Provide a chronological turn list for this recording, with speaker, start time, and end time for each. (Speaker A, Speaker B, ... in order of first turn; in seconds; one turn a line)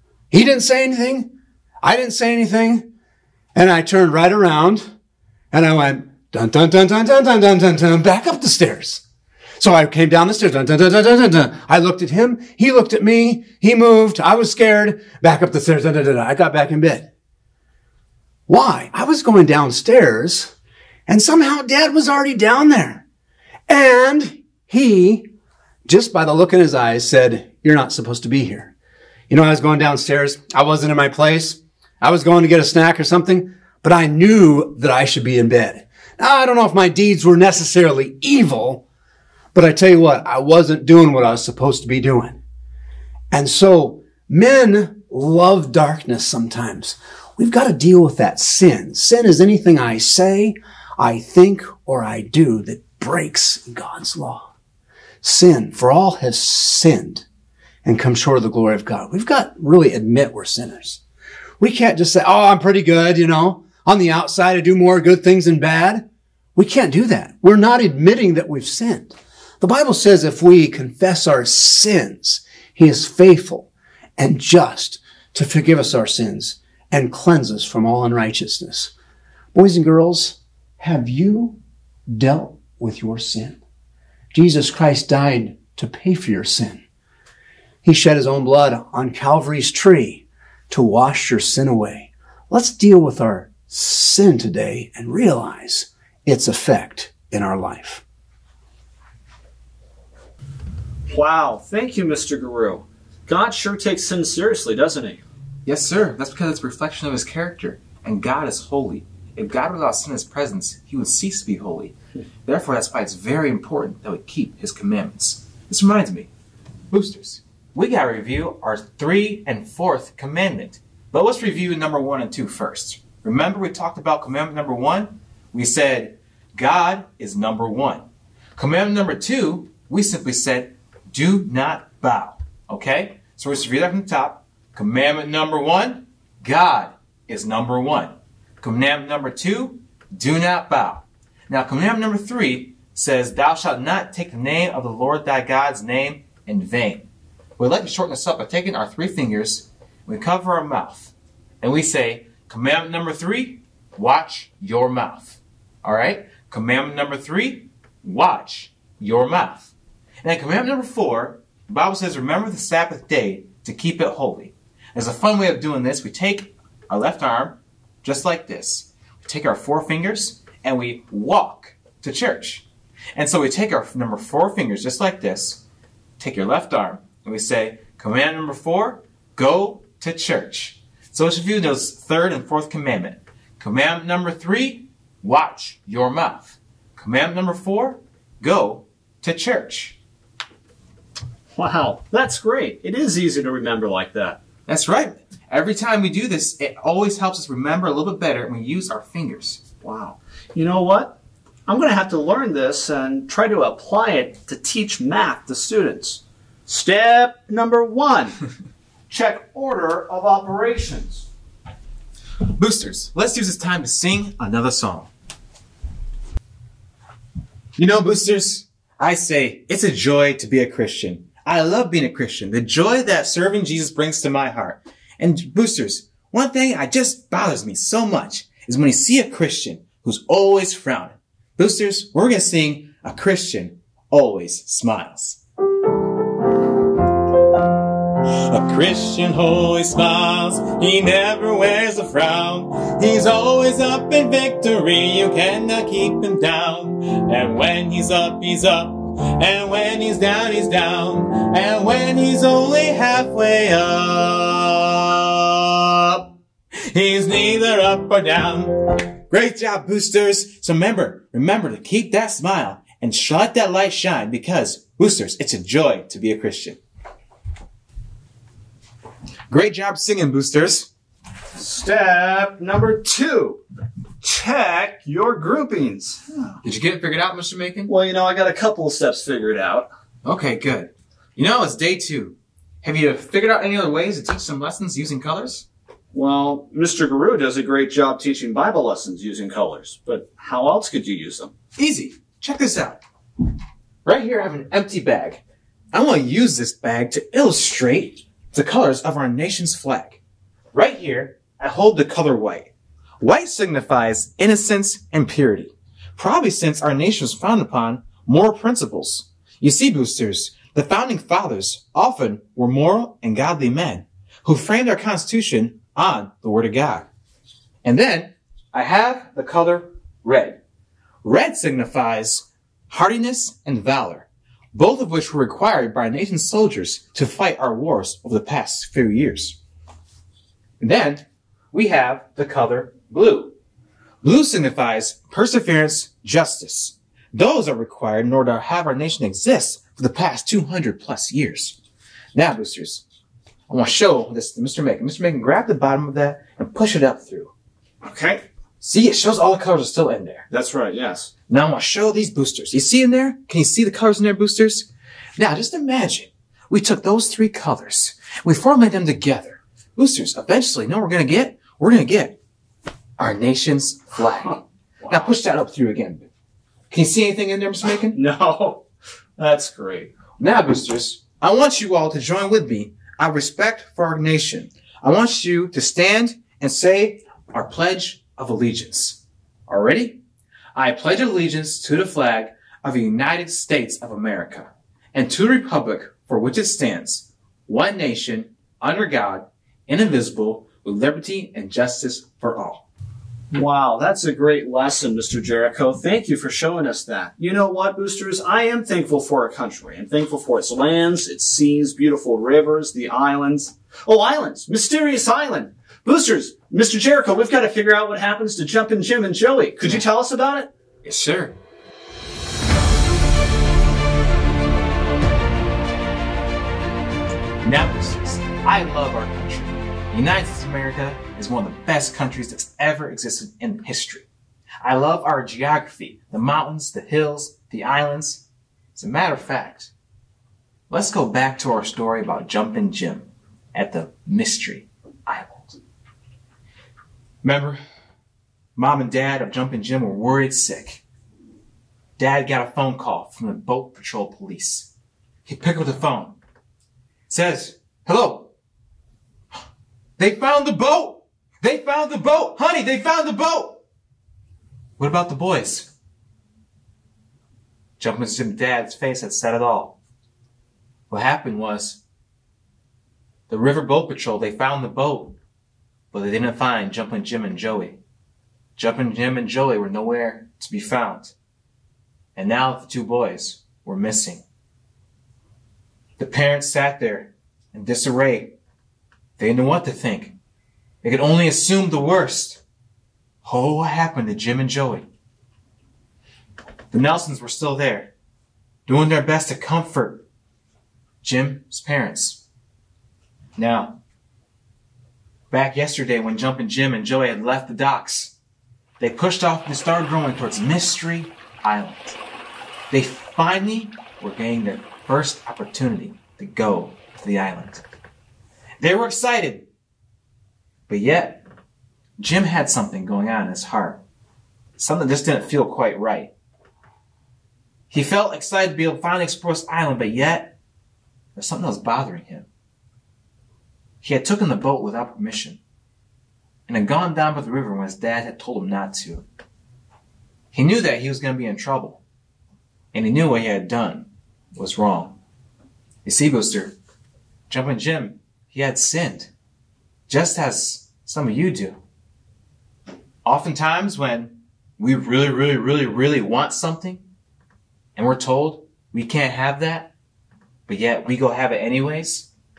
Speaker A: 0.3-2.9
Speaker A: 3.5-4.9
Speaker A: 5.5-9.0
Speaker A: 9.6-17.1
Speaker A: 18.5-20.5
Speaker A: 21.1-23.0
Speaker A: 23.7-25.3
Speaker A: 25.9-28.7
Speaker A: 29.3-38.8
Speaker A: 39.5-42.4
Speaker A: 43.3-54.5
Speaker A: 55.2-57.2
Speaker A: 57.9-61.0
Speaker A: 61.6-78.9
Speaker A: 79.5-81.6
Speaker A: 82.1-83.6
Speaker A: 84.3-86.8
Speaker A: 87.8-98.0
Speaker B: 101.1-105.2
Speaker C: 105.7-116.3
Speaker C: 116.9-128.0
Speaker C: 128.6-147.1
Speaker C: 147.6-159.7
Speaker C: 160.2-175.6
Speaker C: 176.2-190.0
Speaker B: 191.5-194.4
Speaker C: 194.7-199.6
Speaker B: 199.8-208.4
Speaker B: 209.1-211.3
Speaker C: 212.6-215.1
Speaker C: 217.8-235.4
Speaker C: 238.5-256.2
Speaker C: 256.9-258.7
Speaker C: 259.3-266.8
Speaker C: 269.5-270.9
Speaker B: 271.5-273.6
Speaker B: 274.2-276.6
Speaker C: 276.6-277.9
Speaker B: 277.9-279.9
Speaker C: 280.2-285.6
Speaker B: 286.1-291.5
Speaker C: 291.8-293.0
Speaker C: 294.0-295.4
Speaker C: 295.9-300.2
Speaker C: 300.7-317.1
Speaker C: 317.8-320.6
Speaker C: 321.2-329.6
Speaker C: 330.8-333.5
Speaker C: 334.2-341.8
Speaker C: 342.3-343.0
Speaker C: 343.7-347.5
Speaker B: 348.0-348.4
Speaker C: 348.8-350.5
Speaker B: 350.5-351.3
Speaker C: 351.5-362.4
Speaker C: 363.2-366.3
Speaker C: 366.9-368.1
Speaker B: 368.0-368.8
Speaker B: 369.4-370.1
Speaker C: 370.4-380.2
Speaker C: 380.7-392.9
Speaker B: 393.5-410.7
Speaker C: 411.0-411.5
Speaker C: 417.6-424.3
Speaker C: 424.8-429.9
Speaker C: 430.9-435.8
Speaker C: 437.4-437.8
Speaker C: 438.8-441.0
Speaker C: 442.2-444.9
Speaker C: 445.4-446.4
Speaker C: 447.3-448.5
Speaker C: 450.2-453.8
Speaker C: 455.0-455.9
Speaker C: 458.0-460.0
Speaker C: 461.1-462.0
Speaker C: 463.5-465.4
Speaker C: 466.1-468.0
Speaker C: 468.8-471.3
Speaker C: 472.4-474.4
Speaker C: 476.2-478.5
Speaker C: 479.4-480.4
Speaker C: 481.0-482.6
Speaker C: 483.4-485.1
Speaker C: 486.9-488.1
Speaker C: 488.9-490.2
Speaker C: 491.2-492.4
Speaker C: 493.6-494.0
Speaker C: 495.5-498.4
Speaker C: 499.0-502.2
Speaker C: 502.9-507.8
Speaker C: 508.8-509.6
Speaker C: 510.9-511.4
Speaker C: 512.2-514.0
Speaker C: 514.8-516.3
Speaker C: 517.9-520.5
Speaker C: 521.4-522.5
Speaker C: 524.0-525.6
Speaker C: 526.7-529.2
Speaker C: 530.5-532.0
Speaker C: 532.9-535.2
Speaker C: 536.0-536.7
Speaker C: 537.5-539.3
Speaker C: 540.1-541.8
Speaker C: 543.2-547.0
Speaker C: 548.0-549.9
Speaker C: 550.7-552.3